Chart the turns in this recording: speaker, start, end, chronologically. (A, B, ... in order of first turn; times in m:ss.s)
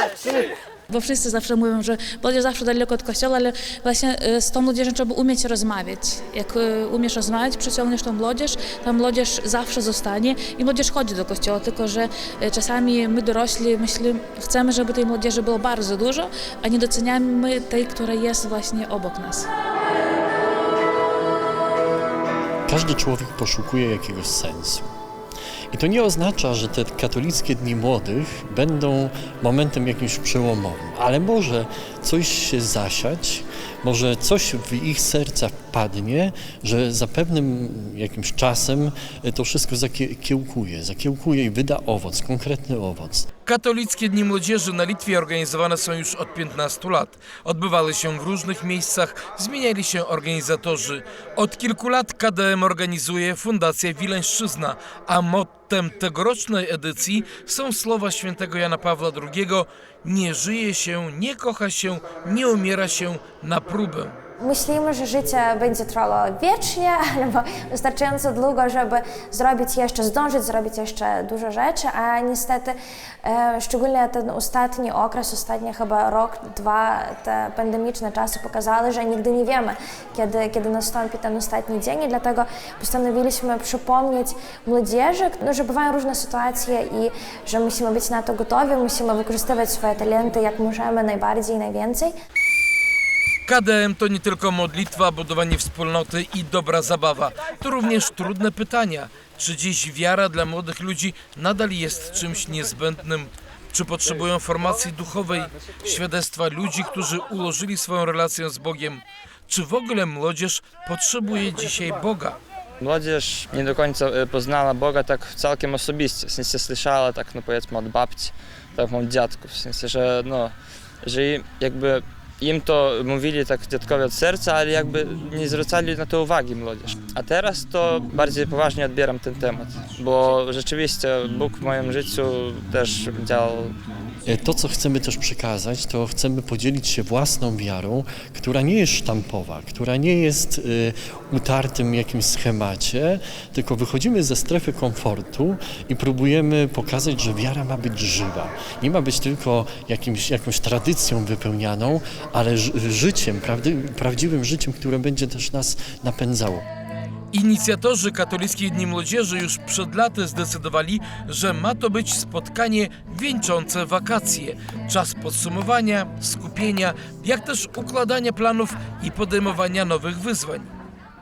0:00.9-0:19.5 A
0:22.7-0:24.8 B
0:25.7-0:43.3 B
0:43.4-1:04.1 C
1:04.4-1:12.7 D
1:13.2-1:32.1 D
1:33.4-1:52.4 C
1:52.8-2:13.7 E
2:14.3-2:36.6 B
2:37.3-2:50.7 C